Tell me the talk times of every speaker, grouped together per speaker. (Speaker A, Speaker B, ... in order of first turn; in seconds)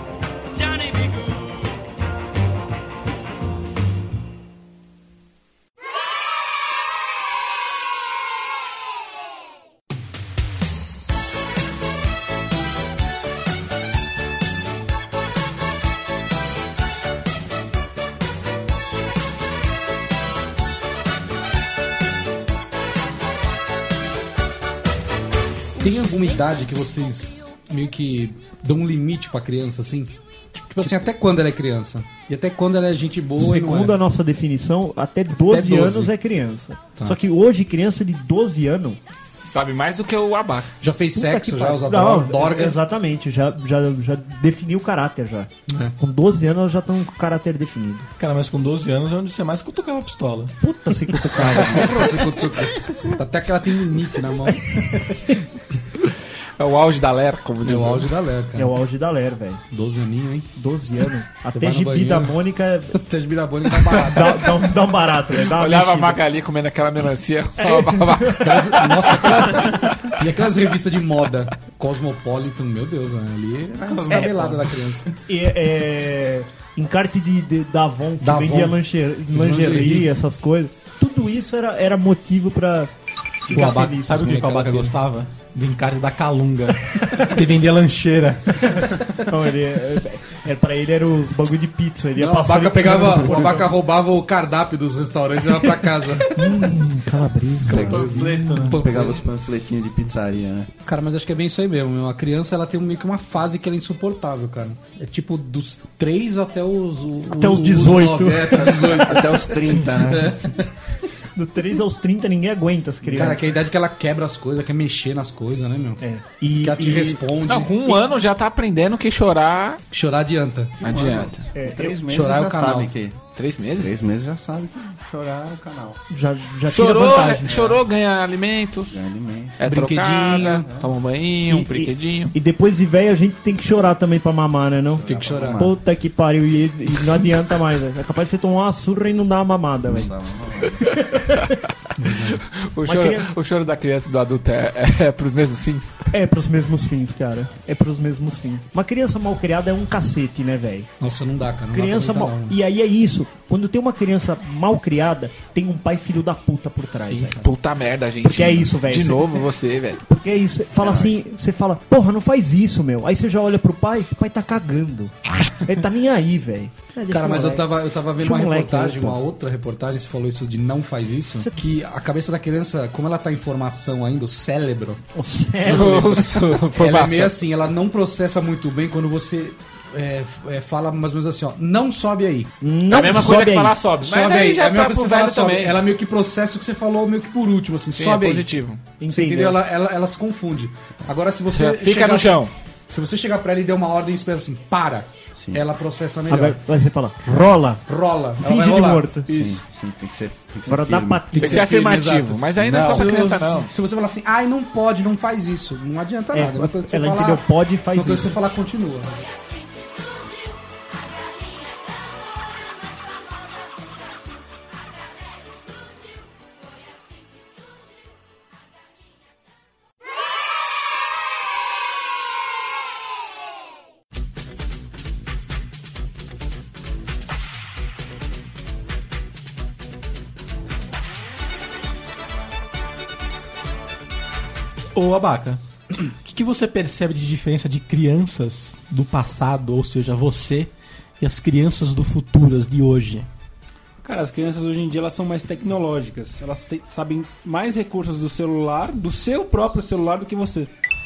Speaker A: 25.8-34.0, 35.5-36.1, 40.8-42.8, 45.7-46.0, 51.4-55.0, 57.6-58.7, 59.7-60.5, 61.5-62.4, 62.9-64.5, 68.4-75.1, 78.2-78.8, 79.3-80.1, 83.5-84.9, 92.2-96.3, 97.7-99.2, 100.9-110.6, 113.1-116.0, 116.6-118.0, 119.9-120.7, 122.1-122.9, 129.7-130.6, 135.1-135.7, 142.0-142.4, 151.0-152.6, 167.1-175.0, 176.7-182.5, 184.0-188.5, 189.1-196.6, 197.9-199.1, 201.3-207.4, 207.9-209.2
Speaker B: 33.4-39.0, 41.1-48.1, 50.6-52.3, 58.6-59.6, 60.6-62.9, 63.9-66.2, 67.6-68.7, 69.6-69.9, 75.3-82.9, 83.5-84.8, 87.1-87.3, 88.8-93.7, 96.3-98.8, 107.3-109.0, 111.3-113.6, 116.0-117.2, 121.5-122.1, 126.1-127.7, 131.5-140.1, 142.8-143.3, 146.1-150.9, 151.7-157.5, 158.2-159.4, 160.0-169.2, 175.2-176.3, 182.6-183.8, 189.0-189.6, 196.3-197.8, 198.4-199.3, 200.7-201.7, 206.3-208.4
Speaker C: 39.5-40.7, 56.6-58.1, 65.4-69.6, 117.5-119.8, 120.8-121.5, 123.4-123.9, 126.7-129.0, 129.6-132.3, 142.4-146.1, 157.1-160.0, 175.7-177.3, 182.9-185.8, 188.0-188.8, 191.5-192.5, 201.4-203.7
Speaker D: 48.2-50.5, 83.5-88.8, 234.9-243.3
Speaker E: 73.9-74.3, 97.8-99.1, 244.0-250.7
Speaker F: 97.7-98.0, 98.7-100.7, 108.6-110.4, 120.9-123.2, 123.8-126.0, 127.2-127.8, 128.9-129.6, 134.9-135.8, 139.8-140.9, 160.8-161.2, 195.4-195.6, 199.3-201.2